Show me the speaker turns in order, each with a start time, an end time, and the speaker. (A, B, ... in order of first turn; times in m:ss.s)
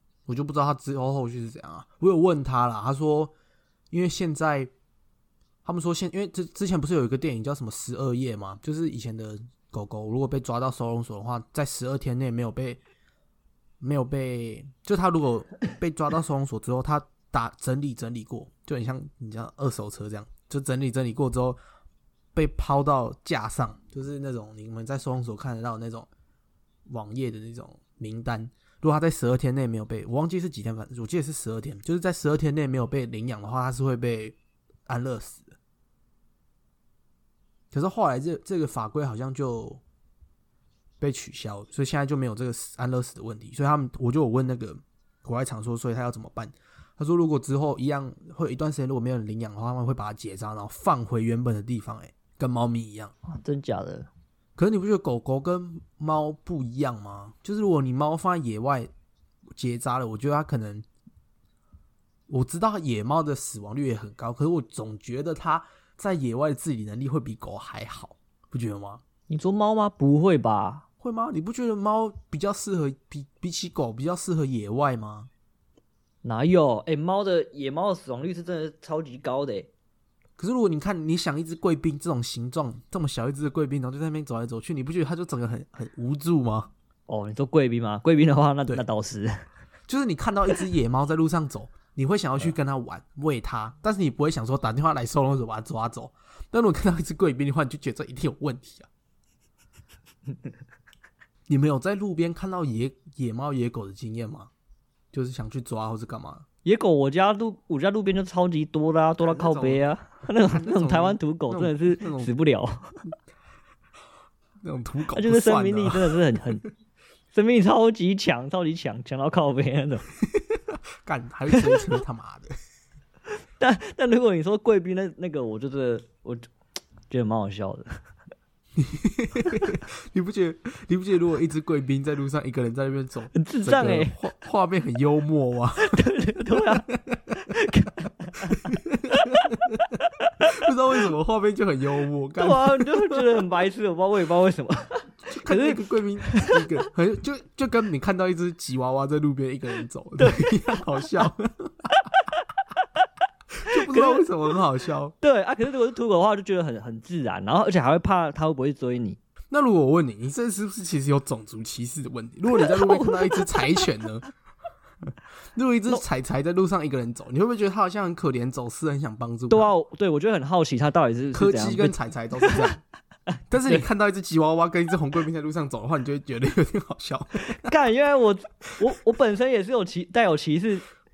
0:00.3-0:03.3 A
0:03.9-0:04.7 A
0:05.6-0:12.8 A
0:13.8-0:21.6 A
0:22.4-0:26.1 A
0:26.9-0:35.6 A
0:37.7-0:39.8 A
0:41.0-0:53.1 A
0:53.2-0:54.1 B
0:54.6-0:58.9 A
0:59.6-1:00.9 A
1:02.3-1:09.0 A
1:09.3-1:10.9 B
1:11.0-1:15.3 A
1:16.2-1:19.7 B
1:20.4-1:26.7 A
1:27.1-1:29.5 B
1:29.9-1:38.9 A
1:41.5-1:44.5 A
1:45.1-1:46.5 A
1:46.6-1:53.0 B
1:49.3-1:49.8 A
1:50.4-1:52.3 A
1:54.6-1:56.4 A
1:55.2-1:56.6 B
1:57.3-2:00.1 B
2:00.2-2:02.5 A
2:01.5-2:01.9 B
2:03.6-2:06.5 B
2:07.1-2:07.9 B
2:08.8-2:17.3 A
2:13.3-2:14.2 B
2:15.8-2:18.6 B
2:18.6-2:20.0 A
2:20.1-2:20.7 B
2:20.5-2:23.4 A
2:22.4-2:26.7 B
2:25.2-2:31.9 A
2:30.2-2:30.5 B
2:33.6-2:35.2 A
2:33.7-2:34.3 B
2:35.2-2:39.2 B
2:39.5-2:44.3 A
2:42.7-2:43.8 B
2:45.6-2:49.7 A
2:49.5-2:52.7 B
2:51.3-2:52.8 A
2:53.3-2:53.8 B
2:53.5-2:57.7 A
2:57.6-3:00.9 B